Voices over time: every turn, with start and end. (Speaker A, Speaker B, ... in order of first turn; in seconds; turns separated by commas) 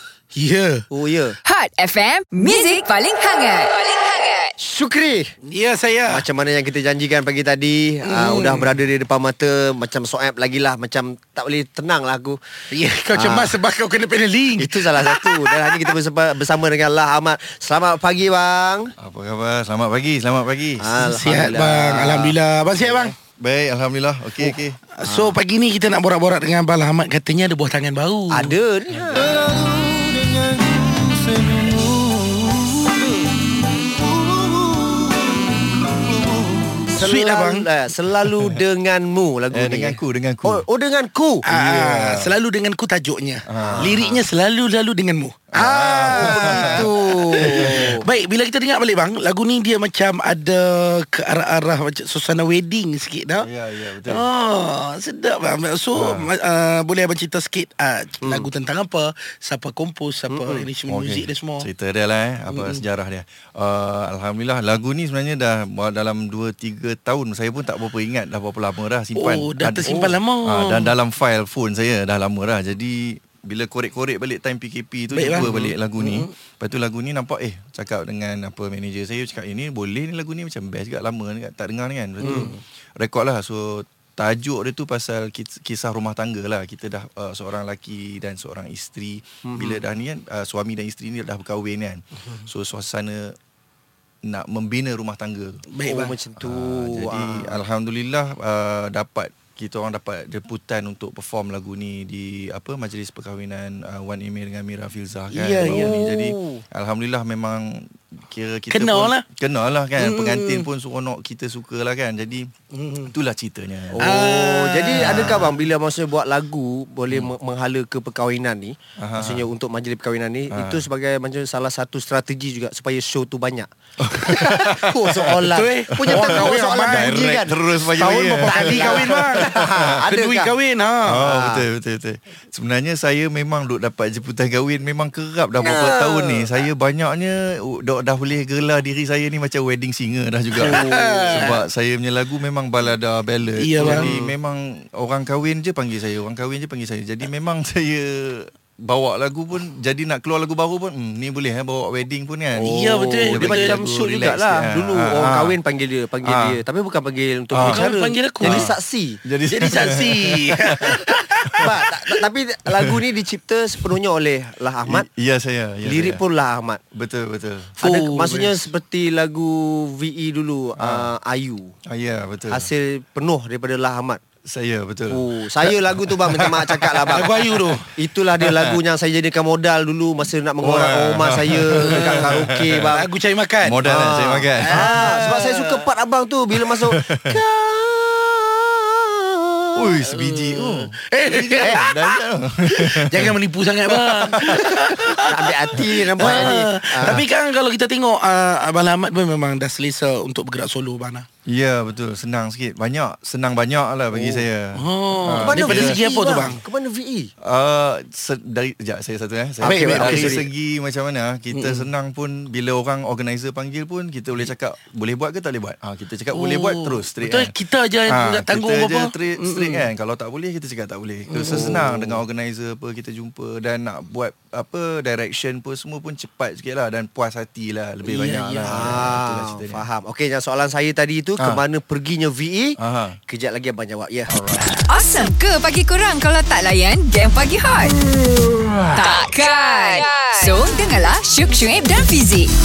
Speaker A: 0.3-0.8, Speaker B: 0.9-1.4, Speaker C: 1.4-4.5, Speaker B: 4.6-5.3, Speaker A: 5.5-6.2, Speaker B: 6.1-12.4, Speaker A: 8.0-8.8, Speaker A: 12.7-15.9, Speaker B: 13.1-13.6, Speaker B: 14.6-18.9, Speaker D: 19.0-20.9, Speaker B: 20.8-23.1, Speaker A: 21.0-23.1, Speaker D: 23.4-24.8, Speaker A: 24.4-28.6, Speaker B: 25.0-25.4, Speaker B: 28.3-29.3, Speaker D: 28.9-33.1, Speaker D: 33.7-36.9, Speaker B: 36.9-41.5, Speaker A: 37.0-37.7, Speaker D: 38.2-38.6, Speaker D: 39.5-40.6, Speaker A: 41.4-53.5, Speaker D: 41.5-42.3, Speaker D: 43.5-44.2, Speaker B: 43.6-43.9, Speaker D: 45.5-47.9, Speaker B: 45.6-48.1, Speaker D: 53.4-54.3, Speaker A: 54.1-61.7, Speaker D: 55.9-56.3, Speaker B: 58.2-58.5, Speaker B: 60.3-60.7, Speaker D: 60.9-93.4, Speaker A: 62.5-62.8, Speaker A: 69.2-70.9, Speaker A: 75.1-76.3, Speaker A: 82.2-82.6, Speaker B: 89.5-89.8, Speaker D: 94.2-95.6, Speaker A: 95.7-96.2, Speaker B: 95.9-97.6, Speaker D: 96.4-112.5, Speaker A: 105.3-106.0, Speaker B: 105.6-106.6, Speaker A: 108.7-109.2, Speaker A: 110.0-110.7, Speaker A: 112.7-113.1, Speaker D: 113.1-114.2, Speaker B: 113.9-130.5, Speaker A: 114.0-115.6, Speaker D: 115.0-115.5, Speaker D: 117.1-117.3, Speaker D: 119.0-119.5, Speaker D: 120.5-120.8, Speaker D: 124.0-125.4, Speaker A: 125.5-127.4, Speaker D: 126.0-130.0, Speaker A: 127.9-131.2, Speaker D: 131.0-155.6, Speaker B: 131.2-131.7, Speaker B: 135.6-136.5, Speaker A: 140.6-141.6, Speaker B: 140.6-141.5, Speaker A: 143.6-144.3, Speaker B: 143.8-144.2, Speaker B: 152.6-159.2, Speaker A: 152.6-154.3, Speaker D: 156.2-156.6, Speaker D: 157.5-157.9, Speaker A: 157.6-158.7, Speaker D: 158.4-158.7, Speaker D: 159.2-161.9, Speaker A: 159.5-161.6, Speaker B: 161.6-165.1, Speaker D: 164.8-166.2, Speaker B: 165.9-166.8, Speaker D: 166.9-167.8, Speaker B: 167.8-171.8, Speaker A: 167.8-168.6, Speaker D: 170.8-171.1, Speaker D: 171.8-172.7, Speaker B: 172.5-174.2, Speaker D: 174.5-177.3, Speaker B: 175.1-177.4, Speaker A: 177.1-177.9, Speaker B: 177.9-183.1, Speaker D: 178.4-178.8, Speaker D: 180.6-182.9, Speaker A: 181.8-182.4, Speaker A: 182.9-183.8, Speaker D: 183.6-185.3, Speaker B: 183.8-190.1, Speaker A: 184.6-185.9, Speaker D: 186.8-187.4, Speaker D: 189.8-193.4, Speaker A: 190.2-201.3, Speaker B: 191.6-191.9, Speaker D: 193.9-195.2, Speaker B: 195.2-197.2, Speaker D: 195.7-196.5, Speaker D: 201.5-206.0, Speaker B: 204.1-204.5, Speaker A: 204.8-206.6, Speaker B: 205.4-207.3, Speaker D: 207.4-217.5, Speaker A: 209.6-210.4, Speaker B: 209.6-210.5, Speaker A: 211.5-211.9, Speaker A: 216.3-219.9, Speaker D: 218.1-229.9, Speaker A: 221.3-221.9, Speaker B: 221.5-222.2, Speaker A: 228.0-229.1, Speaker B: 228.7-234.4, Speaker D: 231.4-231.6, Speaker D: 232.8-233.2, Speaker D: 234.3-234.8, Speaker C: 234.9-238.0, Speaker C: 238.9-242.5